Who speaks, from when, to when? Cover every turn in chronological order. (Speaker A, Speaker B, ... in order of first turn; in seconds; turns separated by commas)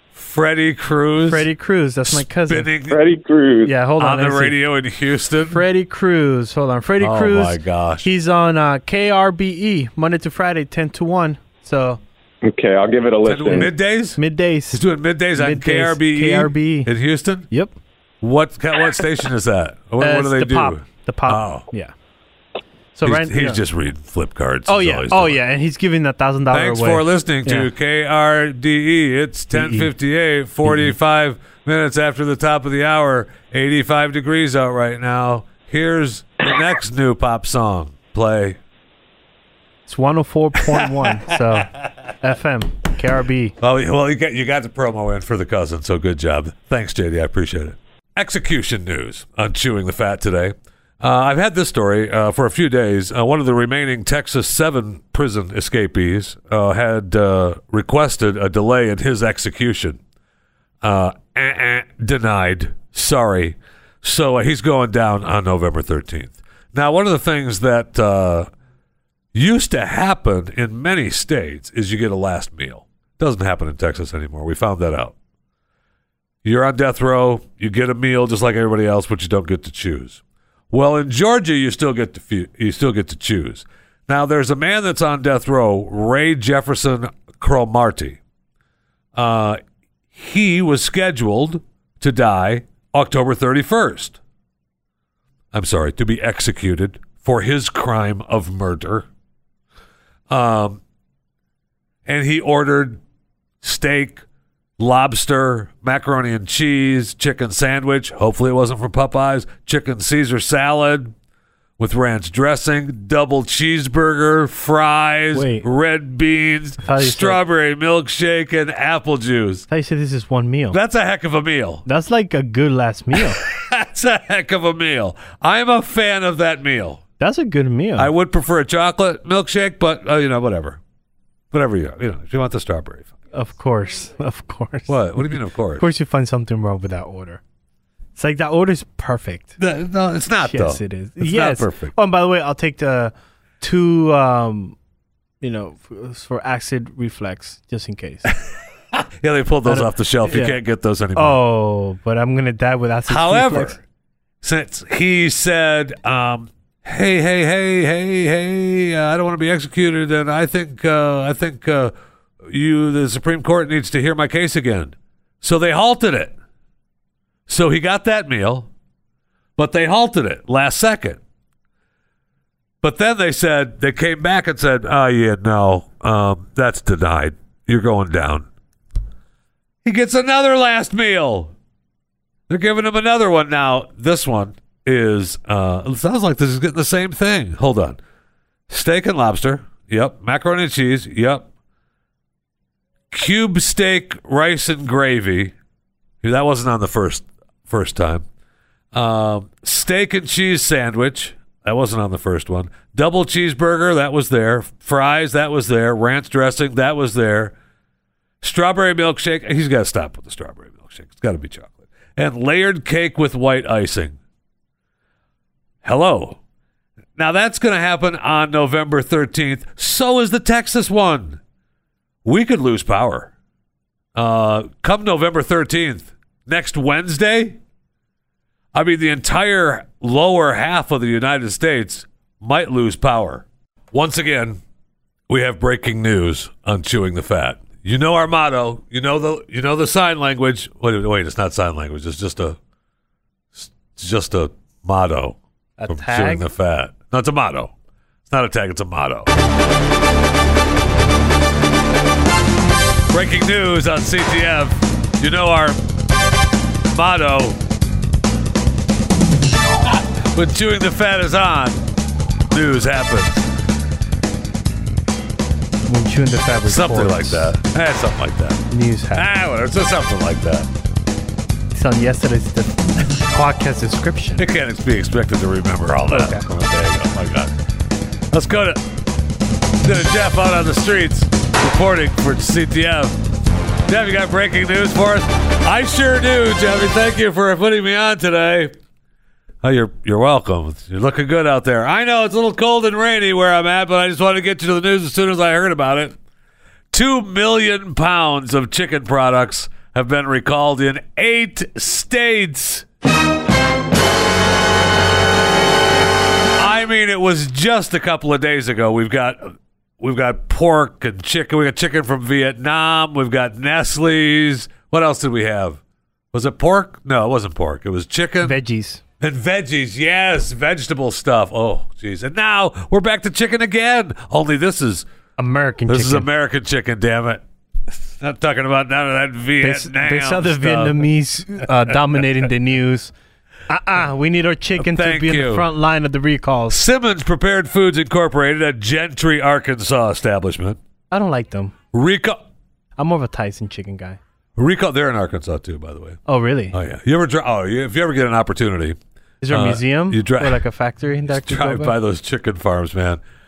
Speaker A: 0.1-1.5, Speaker B: 1.3-2.7, Speaker A: 2.1-3.0, Speaker C: 2.9-3.7, Speaker B: 3.6-4.6, Speaker A: 4.0-5.6, Speaker B: 5.5-12.0, Speaker A: 7.0-8.1, Speaker C: 12.4-13.7, Speaker A: 13.2-14.2, Speaker B: 14.2-14.8, Speaker A: 14.7-17.5, Speaker B: 15.3-16.9, Speaker A: 18.2-21.6, Speaker B: 20.0-21.9, Speaker B: 22.9-23.6, Speaker A: 23.0-25.4, Speaker B: 24.7-27.7, Speaker A: 26.5-38.6, Speaker B: 29.5-29.9, Speaker B: 30.6-30.9, Speaker B: 39.9-43.5, Speaker A: 40.6-41.9, Speaker A: 43.6-60.0, Speaker A: 60.8-68.5, Speaker A: 69.3-75.1, Speaker A: 76.4-88.2, Speaker A: 89.1-89.6, Speaker A: 90.1-94.2, Speaker A: 95.5-99.1, Speaker A: 100.3-100.8, Speaker A: 102.0-103.0, Speaker A: 103.6-104.2, Speaker A: 104.8-111.1, Speaker A: 111.8-119.7, Speaker B: 115.3-115.7, Speaker B: 116.8-117.4, Speaker B: 119.7-120.8, Speaker A: 120.7-121.8, Speaker B: 121.8-123.4, Speaker A: 123.2-127.0, Speaker B: 127.2-128.1, Speaker A: 128.0-130.8, Speaker A: 131.5-133.1, Speaker B: 133.3-137.4, Speaker A: 134.9-135.8, Speaker B: 138.2-139.5, Speaker A: 139.6-141.9, Speaker B: 140.4-144.8, Speaker B: 145.4-148.3, Speaker A: 148.9-151.4, Speaker B: 149.6-150.6, Speaker B: 151.1-153.8, Speaker A: 153.1-153.8, Speaker A: 154.4-166.3, Speaker A: 167.5-168.7, Speaker A: 169.6-171.2, Speaker A: 172.8-178.5, Speaker A: 179.8-181.5, Speaker A: 182.5-188.0, Speaker A: 188.7-191.5, Speaker A: 193.1-195.5, Speaker A: 196.2-198.2, Speaker A: 198.9-207.5, Speaker A: 208.4-214.2, Speaker A: 215.8-216.4, Speaker A: 217.2-221.4, Speaker A: 222.2-223.3, Speaker A: 224.1-227.6, Speaker A: 228.7-234.6, Speaker A: 235.3-242.6, Speaker A: 243.5-245.4, Speaker B: 245.8-246.5, Speaker A: 245.9-247.7, Speaker A: 248.3-249.3, Speaker A: 253.1-255.8, Speaker A: 256.9-257.6, Speaker A: 259.9-261.8, Speaker A: 262.5-263.5, Speaker B: 265.9-267.5, Speaker A: 266.6-270.7, Speaker B: 268.7-269.3, Speaker B: 271.7-274.4, Speaker A: 274.4-277.5, Speaker B: 276.1-276.4, Speaker A: 278.3-278.8, Speaker A: 279.8-283.2, Speaker A: 283.9-288.7, Speaker A: 289.6-296.1, Speaker A: 296.9-302.9, Speaker A: 306.6-315.8, Speaker A: 316.3-318.6, Speaker B: 318.4-319.0, Speaker A: 319.2-325.1, Speaker B: 325.4-326.3, Speaker A: 325.9-331.1, Speaker B: 329.6-333.1, Speaker B: 333.7-336.8, Speaker A: 334.7-335.7, Speaker A: 336.7-340.8, Speaker B: 341.1-341.7, Speaker A: 341.9-342.4, Speaker B: 343.0-344.2, Speaker A: 344.6-346.2, Speaker B: 346.3-346.7, Speaker A: 346.7-349.0, Speaker B: 349.4-351.9, Speaker A: 349.5-350.6, Speaker A: 351.3-353.2